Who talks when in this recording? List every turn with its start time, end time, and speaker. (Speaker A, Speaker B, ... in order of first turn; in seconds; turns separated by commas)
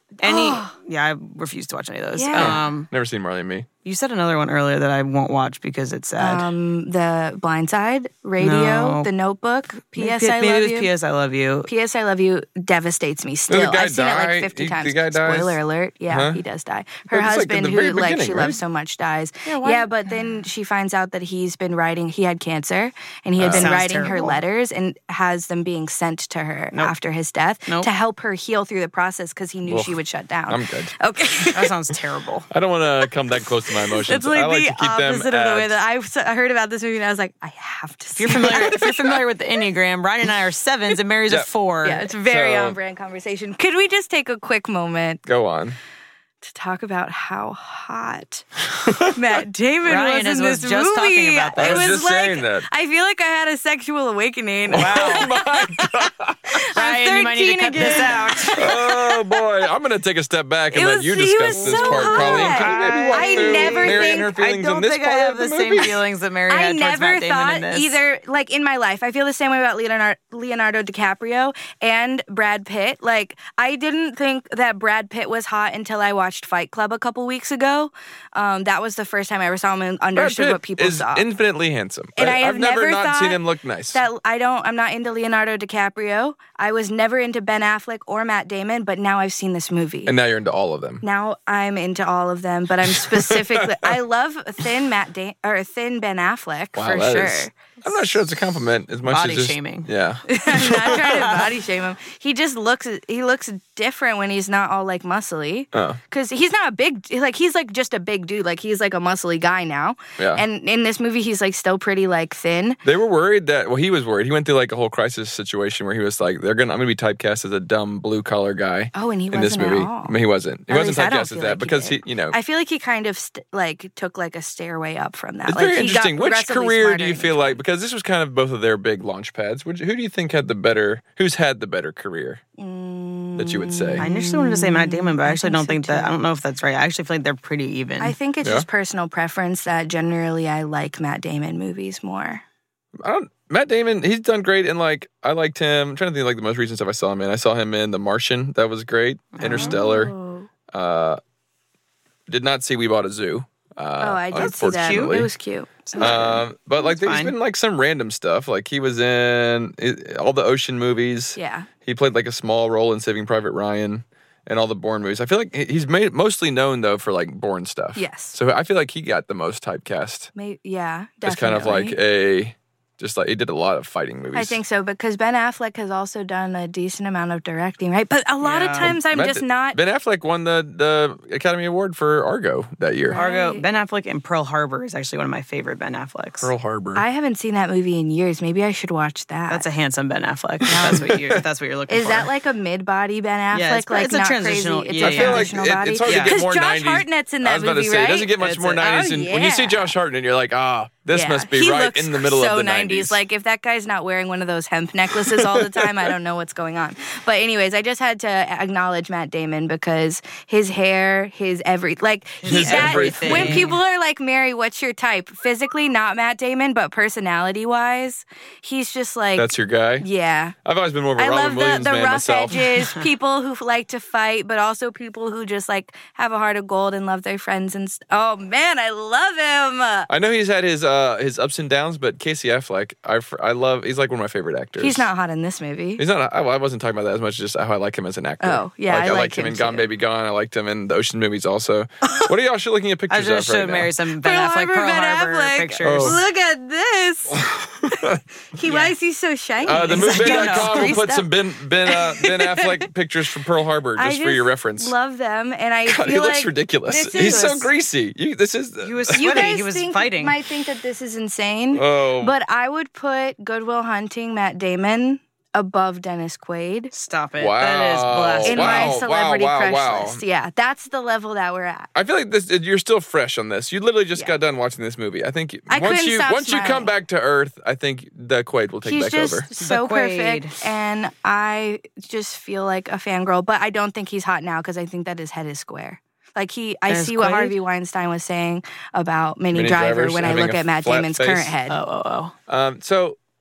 Speaker A: 0.2-0.7, Speaker B: 0.2-2.9, Speaker A: 2.2-2.6, Speaker C: 2.4-3.7, Speaker B: 3.9-6.5, Speaker A: 6.2-10.9, Speaker B: 8.4-9.1, Speaker B: 10.0-11.7, Speaker A: 11.7-31.6, Speaker C: 13.5-16.4, Speaker C: 17.1-18.6, Speaker B: 19.5-19.9, Speaker C: 23.4-23.8, Speaker B: 23.5-24.4, Speaker C: 29.7-30.0, Speaker C: 30.5-30.9, Speaker B: 31.5-32.5, Speaker C: 32.5-35.8, Speaker A: 33.9-38.9, Speaker B: 38.2-42.1, Speaker C: 38.5-38.9, Speaker A: 41.8-45.2, Speaker C: 42.2-42.8, Speaker C: 45.3-45.8, Speaker A: 46.4-48.5, Speaker C: 48.9-49.2, Speaker A: 49.0-59.3, Speaker B: 49.9-51.9, Speaker C: 51.6-52.7, Speaker C: 54.7-56.6, Speaker B: 54.7-55.3, Speaker B: 56.8-58.6, Speaker C: 58.5-66.0, Speaker A: 60.7-64.3, Speaker B: 61.5-68.0, Speaker A: 66.5-81.3, Speaker C: 80.2-84.0, Speaker A: 82.2-90.2, Speaker C: 90.1-91.0, Speaker A: 91.0-97.6, Speaker C: 92.8-94.0, Speaker C: 96.8-101.3, Speaker B: 99.0-99.9, Speaker A: 100.3-112.8, Speaker B: 100.9-101.5, Speaker C: 105.7-106.0, Speaker C: 110.2-110.4, Speaker C: 112.8-122.4, Speaker A: 118.9-120.2, Speaker A: 120.7-127.6, Speaker C: 125.5-132.4, Speaker A: 132.6-136.2, Speaker C: 133.4-134.0, Speaker B: 134.0-138.2, Speaker A: 138.0-142.4, Speaker C: 143.0-150.1, Speaker B: 149.4-149.8, Speaker A: 149.5-150.5, Speaker C: 150.7-151.2, Speaker C: 152.3-155.3, Speaker A: 154.0-156.4, Speaker B: 154.3-155.2, Speaker B: 155.9-157.3, Speaker C: 156.0-170.3, Speaker A: 161.4-161.7, Speaker A: 167.9-168.4, Speaker A: 170.4-172.0, Speaker C: 171.3-174.6, Speaker A: 174.3-179.8, Speaker B: 178.4-178.9, Speaker C: 178.8-183.2, Speaker A: 183.1-183.7, Speaker B: 183.2-186.5, Speaker C: 186.4-187.0, Speaker A: 187.0-189.7, Speaker B: 189.5-192.3, Speaker A: 190.7-191.1, Speaker C: 190.8-191.4, Speaker A: 191.9-199.9, Speaker B: 193.5-195.5, Speaker C: 195.0-203.2, Speaker B: 196.1-196.4, Speaker B: 198.4-198.9, Speaker A: 201.1-220.6, Speaker C: 205.1-206.1, Speaker B: 212.4-213.8, Speaker C: 212.4-213.8, Speaker C: 219.4-220.1, Speaker C: 220.7-222.7, Speaker A: 221.2-230.1, Speaker C: 230.1-235.1, Speaker A: 234.8-236.0, Speaker C: 236.0-243.9, Speaker A: 238.4-239.9, Speaker B: 243.1-246.2, Speaker A: 244.2-251.3, Speaker C: 245.8-246.2, Speaker C: 247.3-248.2, Speaker B: 248.7-248.9, Speaker C: 249.6-254.9, Speaker B: 249.8-251.0, Speaker A: 251.9-252.8, Speaker A: 254.0-257.7, Speaker C: 255.9-259.6, Speaker B: 258.8-260.4, Speaker A: 259.2-266.9, Speaker C: 261.7-262.3, Speaker B: 266.9-269.0, Speaker C: 267.4-270.2, Speaker A: 268.4-271.9, Speaker C: 271.9-279.5, Speaker A: 275.7-276.9, Speaker A: 278.8-291.8, Speaker B: 279.6-280.6, Speaker B: 286.9-287.6, Speaker C: 289.5-291.5, Speaker B: 291.7-292.3, Speaker C: 292.5-293.2